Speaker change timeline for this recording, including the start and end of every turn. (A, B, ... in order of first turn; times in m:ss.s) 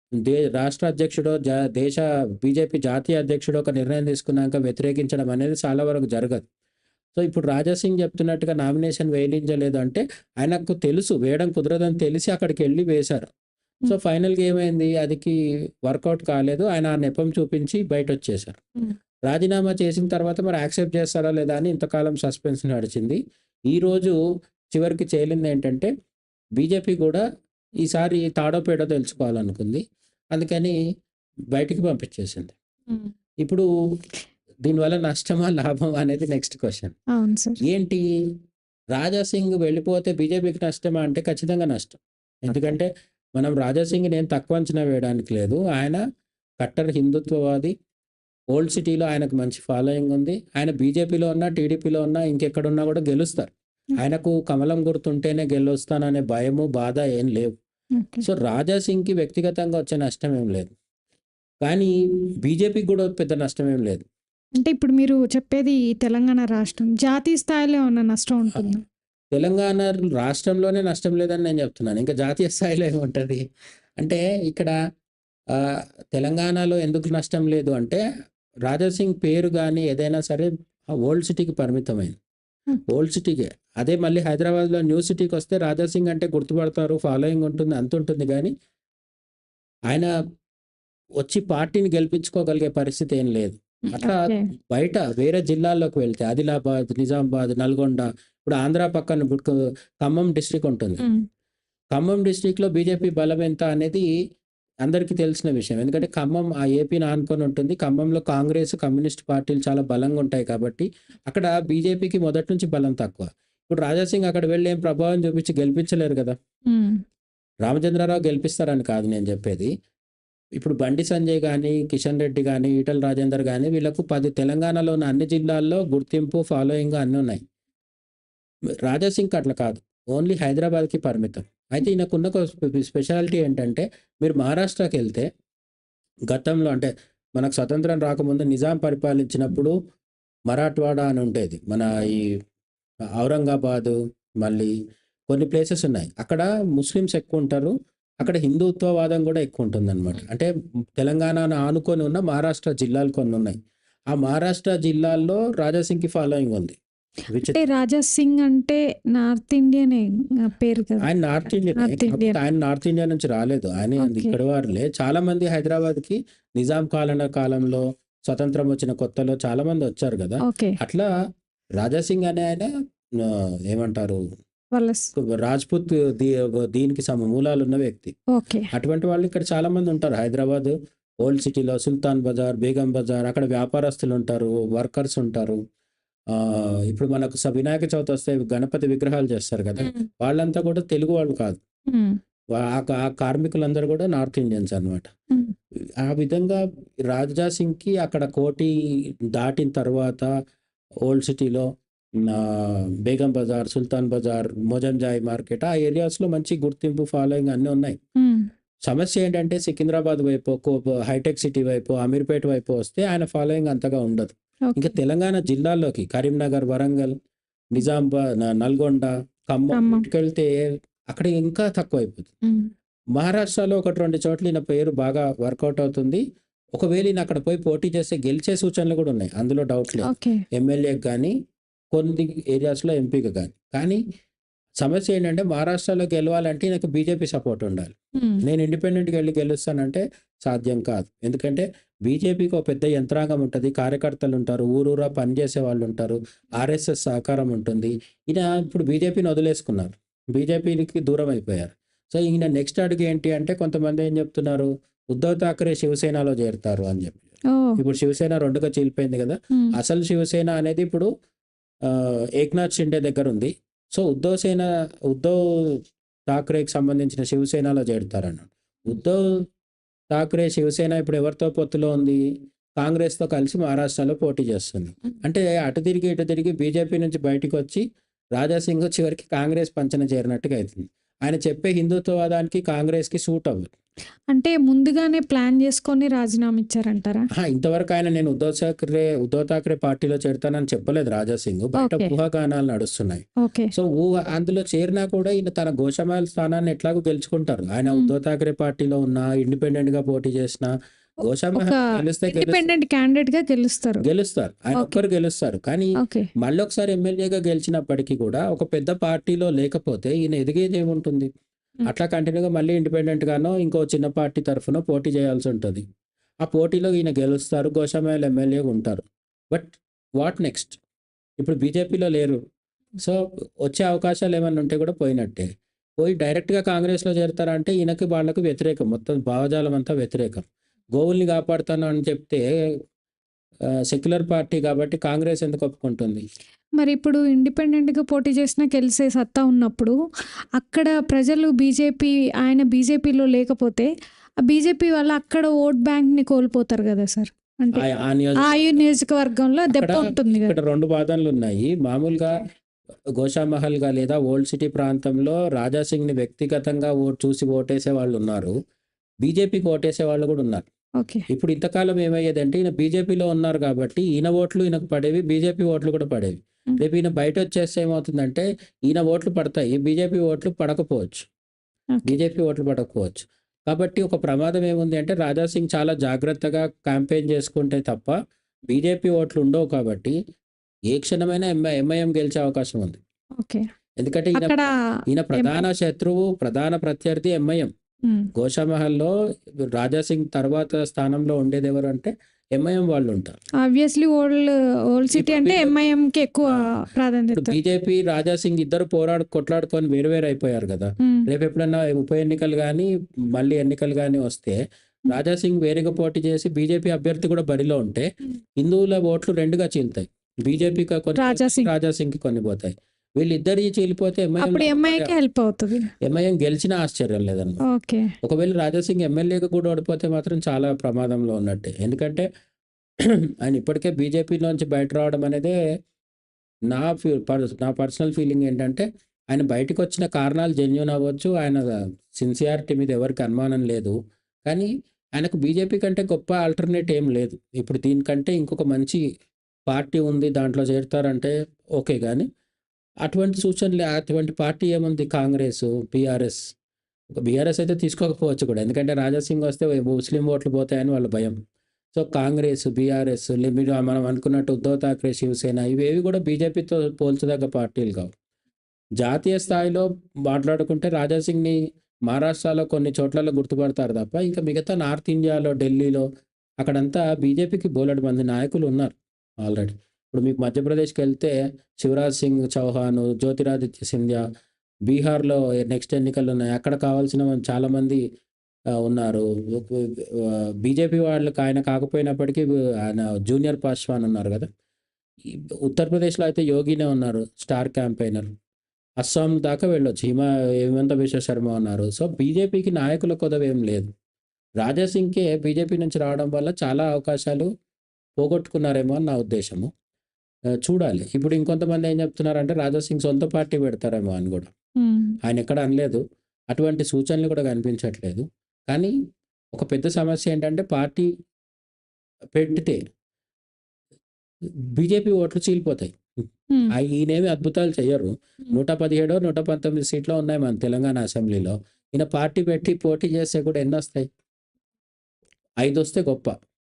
0:00.2-0:06.5 A
0:07.2-0:13.3 A
0:13.8-0:18.6 A
0:19.2-0:23.2 A
0:23.7-0:24.2 A
0:24.7-0:25.9 A
0:26.6-0:27.2 A
0:27.8-0:29.8 A
0:30.3-0:30.8 A
0:31.5-0:32.5 A
0:34.6-0:36.9 A
0:37.1-0:37.6 B
0:37.6-0:38.0 A
0:38.9-0:46.0 A
0:42.5-0:42.8 B
0:46.6-0:47.7 A
0:48.5-0:57.5 A
0:58.0-0:58.3 B
0:58.2-1:00.7 A
1:01.6-1:01.9 A
1:02.4-1:04.0 A
1:04.6-1:08.8 B
1:09.3-1:13.4 A
1:14.0-1:14.7 A
1:15.5-1:18.0 A
1:18.6-1:22.2 A
1:22.9-1:28.5 A
1:31.2-1:41.0 A
1:33.9-1:34.5 B
1:41.0-1:41.2 B
1:41.9-1:44.1 A
1:44.8-1:56.4 A
1:56.6-1:57.0 B
1:57.6-1:59.7 A
2:00.6-2:07.4 A
2:08.8-2:15.3 A
2:16.3-2:19.7 A
2:20.5-2:22.3 A
2:23.2-2:24.7 A
2:25.3-2:33.6 A
2:34.1-2:36.8 A
2:37.3-2:37.6 A
2:37.5-2:41.1 B
2:41.0-2:51.1 A
2:41.8-2:42.4 B
2:44.0-2:44.3 B
2:50.4-2:50.8 B
2:51.8-2:54.2 A
2:54.7-2:55.1 B
2:55.2-2:58.1 A
2:58.3-2:58.7 B
2:58.7-3:05.6 A
3:06.3-3:11.6 A
3:11.9-3:12.2 B
3:12.5-3:15.1 A
3:16.0-3:18.7 A
3:19.3-3:20.3 A
3:21.0-3:28.0 A
3:28.2-3:28.5 B
3:28.8-3:37.1 A
3:34.7-3:34.9 B
3:37.7-3:40.5 A
3:39.7-3:40.1 B
3:41.1-3:42.3 A
3:42.4-3:42.7 B
3:43.1-3:46.2 A
3:46.7-3:51.3 A
3:50.0-3:50.4 B
3:51.9-3:54.0 A
3:54.8-4:21.1 A
3:58.1-3:58.4 B
4:17.5-4:17.8 B
4:21.8-4:29.4 A
4:30.1-4:32.2 A
4:32.8-4:37.8 A
4:38.4-4:43.7 A
4:44.3-4:47.3 B
4:47.4-5:02.7 A
4:51.8-4:52.1 B
4:53.4-4:53.7 B
5:01.6-5:04.0 B
5:04.0-5:11.3 A
5:04.7-5:05.0 B
5:06.0-5:06.3 B
5:11.8-5:15.8 A
5:16.4-5:20.8 A
5:21.4-5:22.4 A
5:23.0-5:25.5 A
5:26.0-5:32.4 A
5:33.8-5:36.2 A
5:36.8-5:39.9 B
5:40.6-5:43.9 B
5:44.4-5:47.8 B
5:47.7-5:48.5 A
5:48.4-5:50.6 B
5:49.7-5:52.4 A
5:53.2-5:58.5 A
5:59.2-6:00.7 A
6:01.0-6:01.2 B
6:01.3-6:11.3 A
6:12.0-6:18.1 A
6:18.7-6:20.2 A
6:20.9-6:23.0 A
6:23.4-6:23.6 B
6:24.0-6:27.7 A
6:24.3-6:24.7 B
6:25.3-6:25.6 B
6:28.0-6:28.3 B
6:28.3-6:29.1 A
6:29.7-6:33.4 A
6:33.6-6:37.6 B
6:35.1-6:35.7 A
6:37.3-6:55.1 A
6:51.2-6:51.7 B
6:54.4-6:55.9 B
6:56.0-6:57.6 A
6:57.7-6:58.1 B
6:58.2-7:02.3 A
7:03.0-7:05.6 A
7:06.7-7:19.0 A
7:19.7-7:22.3 A
7:23.0-7:26.4 A
7:27.2-7:31.4 A
7:32.0-7:38.1 A
7:39.0-7:46.0 A
7:46.6-7:54.2 A
7:54.9-7:58.0 A
7:58.8-8:04.5 A
8:05.3-8:08.3 A
8:09.0-8:13.9 A
8:14.6-8:17.5 A
8:18.2-8:19.7 A
8:20.6-8:24.5 A
8:24.8-8:25.2 B
8:25.2-8:28.9 A
8:29.5-8:31.1 A
8:32.3-8:32.8 A
8:34.8-8:36.0 A
8:36.7-8:44.1 A
8:45.6-8:46.4 A